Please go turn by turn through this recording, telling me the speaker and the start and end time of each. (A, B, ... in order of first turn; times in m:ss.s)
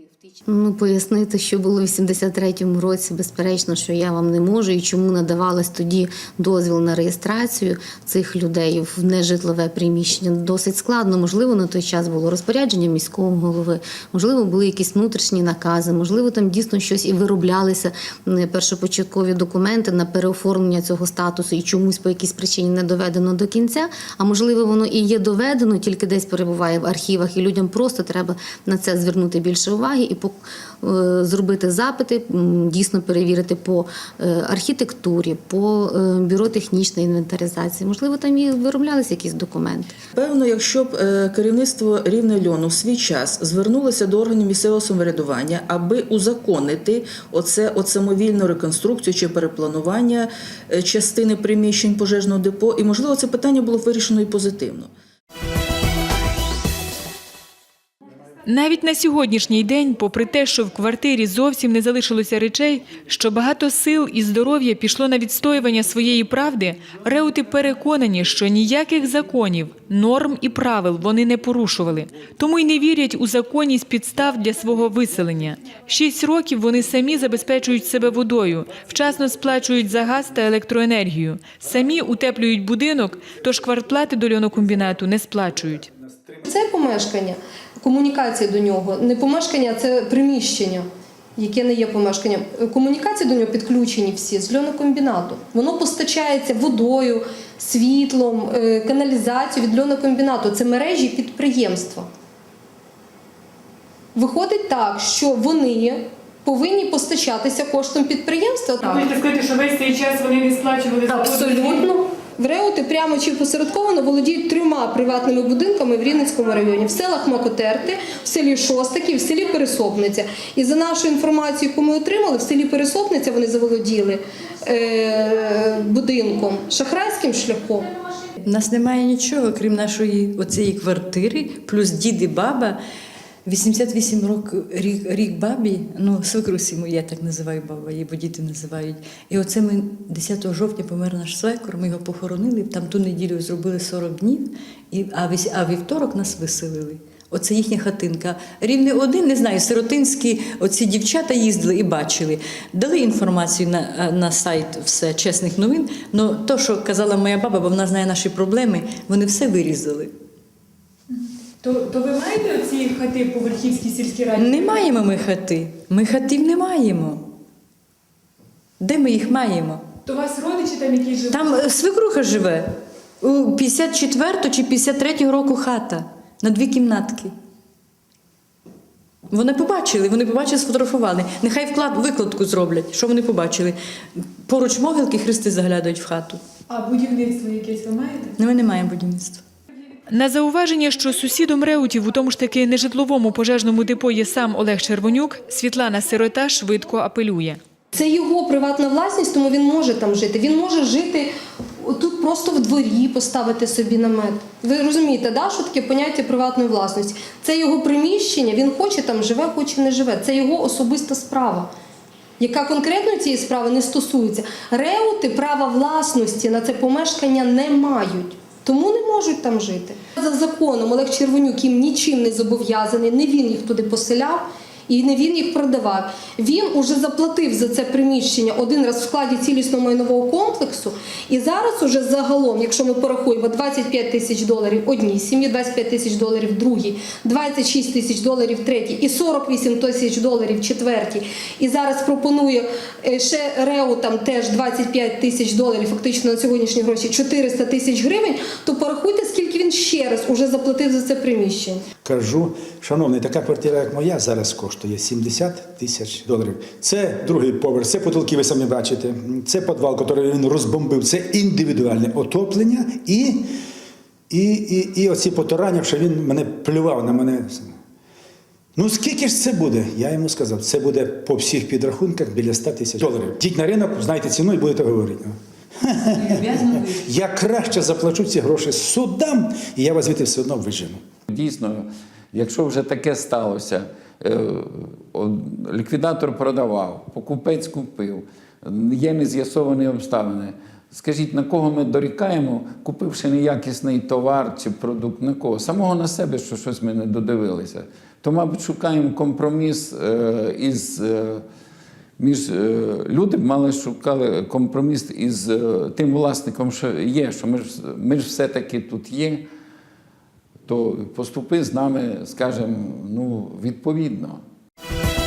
0:00.4-0:40.0 A
0:40.1-0:54.9 B
0:58.5-1:25.9 C
1:26.4-1:42.1 D
1:44.2-1:49.1 D
1:48.8-1:51.8 C
1:51.1-2:07.9 D
2:08.4-2:12.8 E
2:13.4-2:40.1 E
2:41.6-2:44.7 C
2:44.4-2:47.3 E
2:48.8-2:49.8 E
2:50.1-2:51.5 C
2:51.3-2:57.3 E
2:59.3-3:06.4 E
3:06.7-3:08.4 C
3:08.4-3:09.4 E
3:10.1-3:17.6 C
3:18.0-3:31.7 D
3:32.4-4:11.9 D
4:12.0-4:23.5 F
4:24.3-4:27.8 F
4:28.8-4:41.0 F
4:36.1-4:37.1 E
4:41.3-5:01.4 G
5:02.2-5:09.5 G
5:10.7-5:14.4 G